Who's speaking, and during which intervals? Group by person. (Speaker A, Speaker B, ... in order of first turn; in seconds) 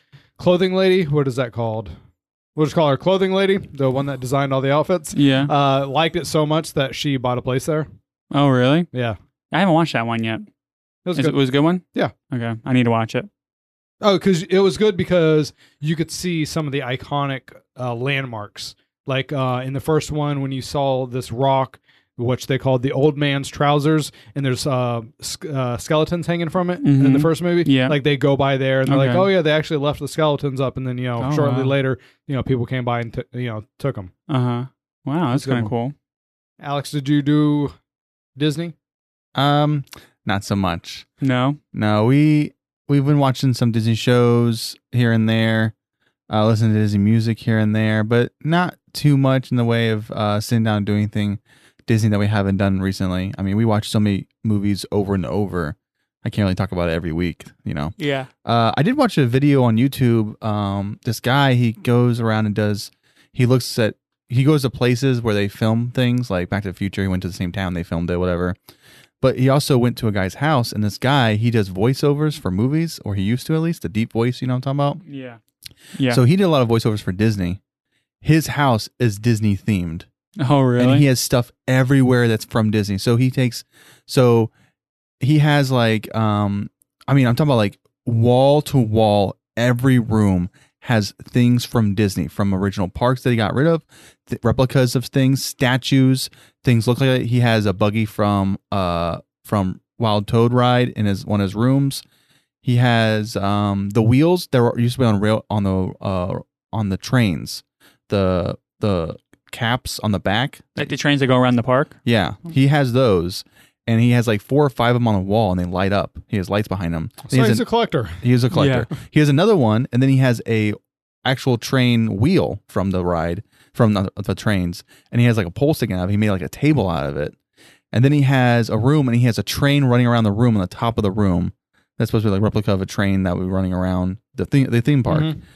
Speaker A: 0.4-1.9, 2.6-7.9, 11.1-11.4, 14.0-34.1, 35.3-35.7, 36.6-37.7, 38.4-38.8, 117.3-118.2, 135.1-135.4
Speaker B: 5.1-5.5, 8.3-8.9, 9.5-10.5, 11.2-13.3, 26.8-28.0, 28.9-29.3, 31.2-31.7, 34.3-35.9, 41.2-41.6, 58.0-58.3, 75.0-75.4, 76.0-76.2, 80.4-81.1, 110.8-112.0, 118.5-118.9
Speaker C: 39.4-41.1, 41.7-45.7, 46.3-68.6, 69.2-75.0, 76.1-77.6, 78.2-80.1, 80.8-84.5, 85.2-102.0, 102.6-110.9, 112.0-127.4, 127.9-135.3